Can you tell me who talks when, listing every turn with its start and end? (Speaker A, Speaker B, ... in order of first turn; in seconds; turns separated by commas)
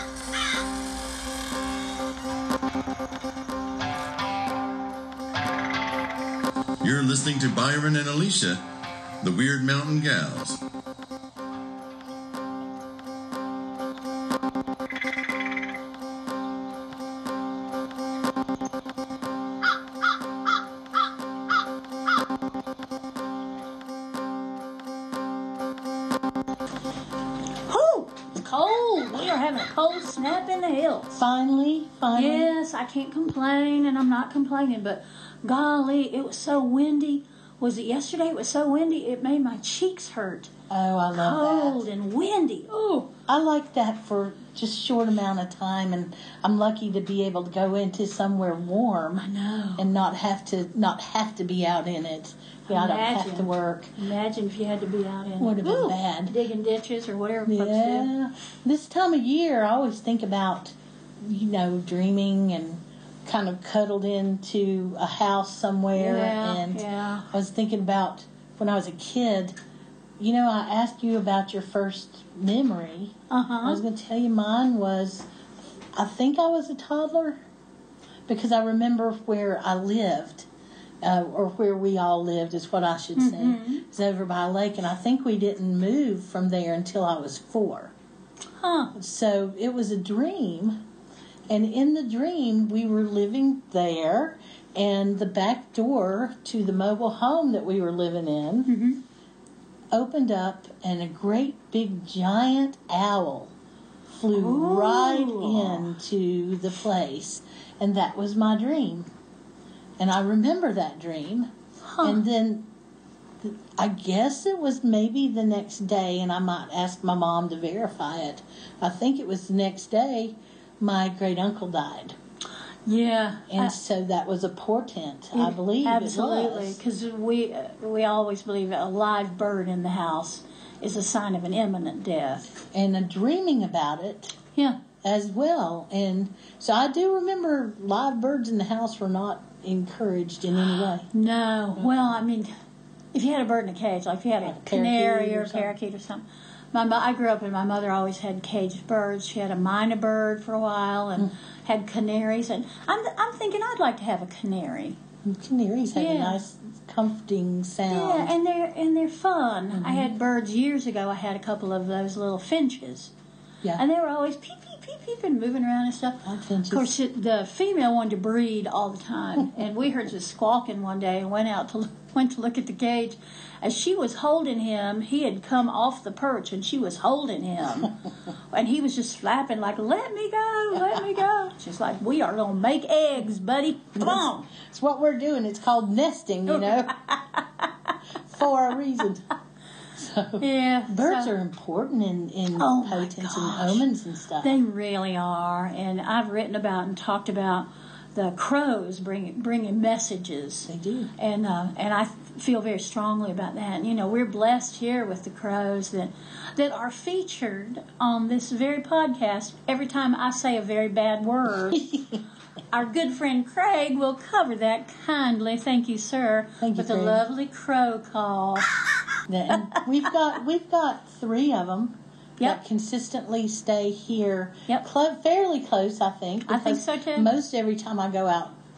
Speaker A: 6.8-8.6, Speaker A: 9.2-10.6, Speaker B: 27.7-31.2, Speaker C: 31.1-32.5, Speaker B: 32.1-40.5, Speaker C: 40.7-41.9, Speaker B: 41.1-43.1, Speaker C: 43.3-53.9, Speaker B: 49.2-49.9, Speaker B: 52.7-58.1, Speaker C: 55.4-56.4, Speaker C: 57.5-69.6, Speaker B: 66.0-67.3, Speaker C: 70.2-75.3, Speaker B: 73.3-73.8, Speaker C: 75.9-77.4, Speaker C: 78.3-80.5, Speaker C: 81.0-87.9, Speaker B: 83.2-83.8, Speaker B: 88.6-88.9, Speaker C: 89.0-90.8, Speaker C: 91.5-98.7, Speaker B: 98.7-99.0, Speaker C: 99.9-103.5, Speaker C: 104.1-109.1, Speaker B: 104.3-105.9, Speaker C: 110.0-112.7, Speaker B: 111.8-112.2, Speaker C: 113.4-122.2, Speaker B: 122.9-123.8, Speaker C: 123.5-126.8, Speaker B: 125.3-132.6, Speaker C: 132.7-134.4, Speaker B: 134.6-134.8, Speaker C: 135.0-141.1, Speaker B: 141.1-142.5, Speaker C: 141.8-142.1, Speaker B: 143.1-155.0, Speaker C: 144.4-145.7, Speaker C: 155.2-158.3, Speaker B: 155.9-156.4, Speaker B: 157.9-163.1, Speaker C: 159.7-160.2, Speaker B: 163.8-177.9, Speaker C: 166.2-167.0, Speaker B: 178.5-184.5, Speaker C: 184.0-186.9, Speaker B: 186.5-187.4, Speaker C: 188.2-189.3, Speaker C: 189.9-194.6, Speaker B: 190.4-191.3, Speaker B: 192.6-193.9, Speaker B: 194.4-211.9, Speaker C: 200.7-201.1, Speaker C: 211.7-212.2, Speaker B: 212.7-218.7, Speaker C: 216.6-217.2, Speaker C: 219.3-228.6, Speaker B: 219.5-219.8, Speaker B: 226.5-227.3